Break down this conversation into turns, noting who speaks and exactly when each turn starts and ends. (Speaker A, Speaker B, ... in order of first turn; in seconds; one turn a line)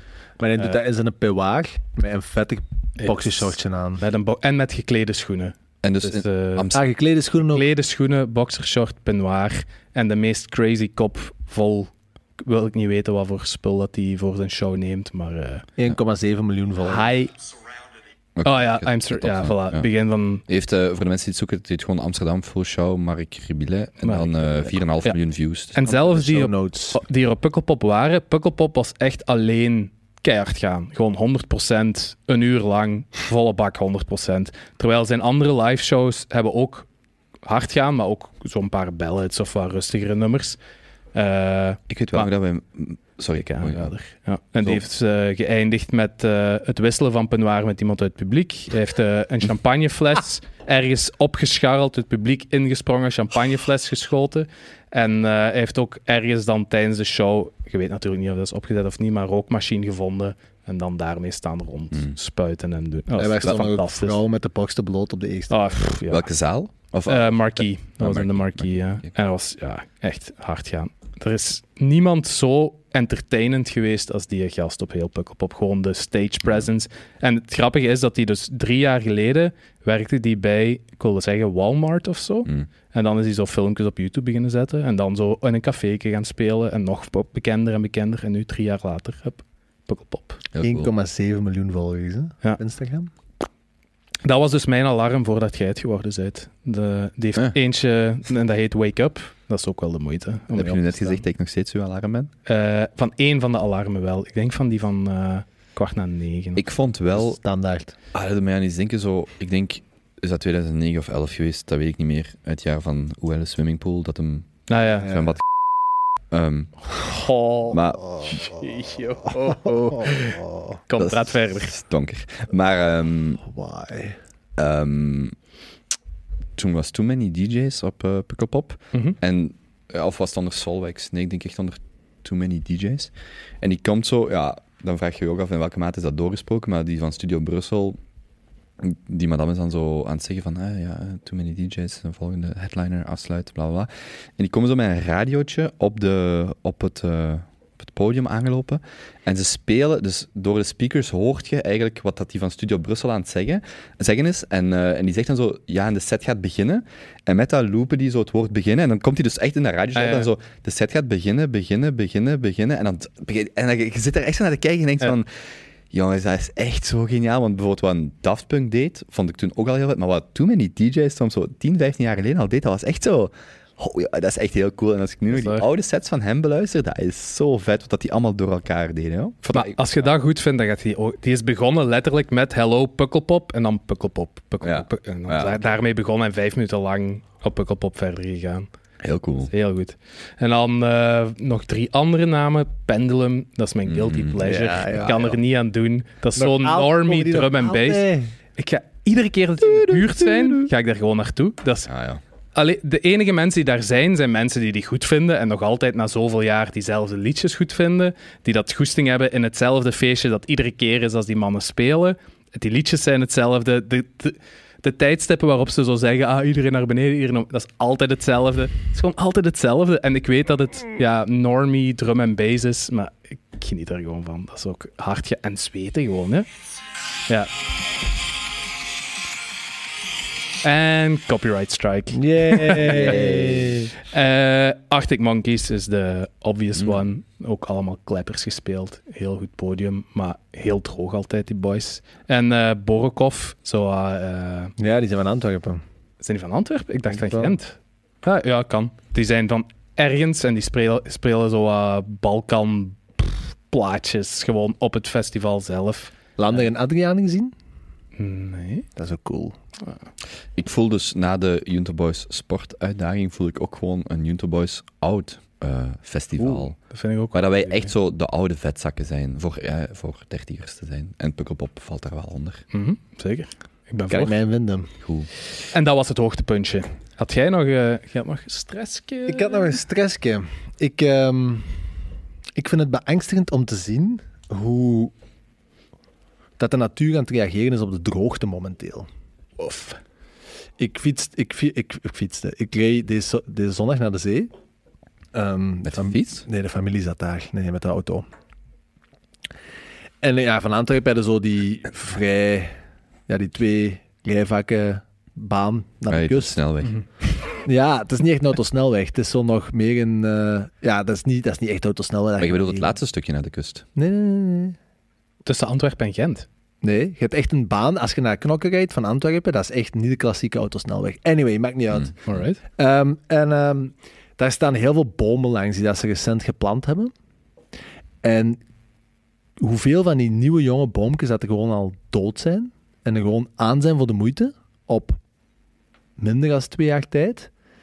Speaker A: 0.4-4.0
Speaker B: 3.0-6.7
Speaker C: 5.8-6.8
Speaker A: 6.7-7.6
Speaker B: 7.5-15.7
Speaker A: 15.8-17.1
Speaker B: 16.8-17.5
Speaker C: 18.4-19.9
Speaker B: 18.4-20.4
Speaker C: 20.5-26.0
Speaker B: 24.0-25.1
Speaker B: 25.7-36.9
Speaker A: 25.9-27.0
Speaker B: 37.4-40.6
Speaker B: 41.1-42.3
Speaker C: 41.9-43.9
Speaker B: 43.4-64.2
Speaker A: 63.1-65.8
Speaker B: 65.5-66.2
Speaker C: 66.0-69.1
Speaker B: 67.0-90.4
Speaker C: 90.5-90.9
Speaker A: 90.6-93.1
Speaker B: 94.2-101.2
Speaker C: 100.5-102.3
Speaker B: 102.5-106.6
Speaker C: 106.5-107.4
Speaker A: 107.1-107.9
Speaker C: 108.1-115.4
Speaker B: 114.7-115.1
Speaker C: 116.3-116.9
Speaker B: 116.9-121.7
Speaker C: 117.7-118.4
Speaker A: 119.4-120.8
Speaker C: 121.0-123.4
Speaker A: 123.4-124.2
Speaker C: 124.6-125.3
Speaker C: 126.6-138.0
Speaker C: 138.8-180.1
Speaker B: 159.9-160.3
Speaker B: 175.3-175.7
Speaker B: 179.5-188.7
Speaker C: 184.6-185.6
Speaker C: 189.0-189.5
Speaker B: 189.5-201.9
Speaker C: 193.8-195.3
Speaker A: 194.4-195.4
Speaker A: 196.4-198.3
Speaker C: 199.6-200.7
Speaker C: 201.9-202.2
Speaker B: 202.5-226.5
Speaker B: 230.6-233.2
Speaker A: 232.1-233.9
Speaker C: 232.9-233.8
Speaker B: 234.0-244.7
Speaker A: 244.8-245.8
Speaker B: 246.2-256.1
Speaker A: 247.1-247.6
Speaker A: 256.4-257.5
Speaker B: 258.1-258.9
Speaker A: 258.9-259.6
Speaker C: 260.6-266.8
Speaker B: 266.5-267.9
Speaker C: 267.3-272.6
Speaker B: 272.7-274.4
Speaker A: 274.1-274.9
Speaker C: 275.0-275.3
Speaker B: 275.6-279.8
Speaker A: 279.3-281.9
Speaker A: 282.6-285.1
Speaker A: 286.6-289.1
Speaker B: 289.6-290.0
Speaker A: 290.8-294.5
Speaker A: 295.3-298.2
Speaker C: 295.9-296.4
Speaker A: 300.2-302.7
Speaker A: 303.3-306.6
Speaker C: 306.1-307.0
Speaker A: 307.6-312.9
Speaker C: 312.4-313.8
Speaker A: 313.9-314.8
Speaker B: 315.4-316.5
Speaker A: 316.8-322.1
Speaker C: 322.0-322.4
Speaker B: 322.3-322.6
Speaker A: 322.8-327.1
Speaker A: 328.2-328.6
Speaker A: 329.6-335.2
Speaker A: 336.2-337.5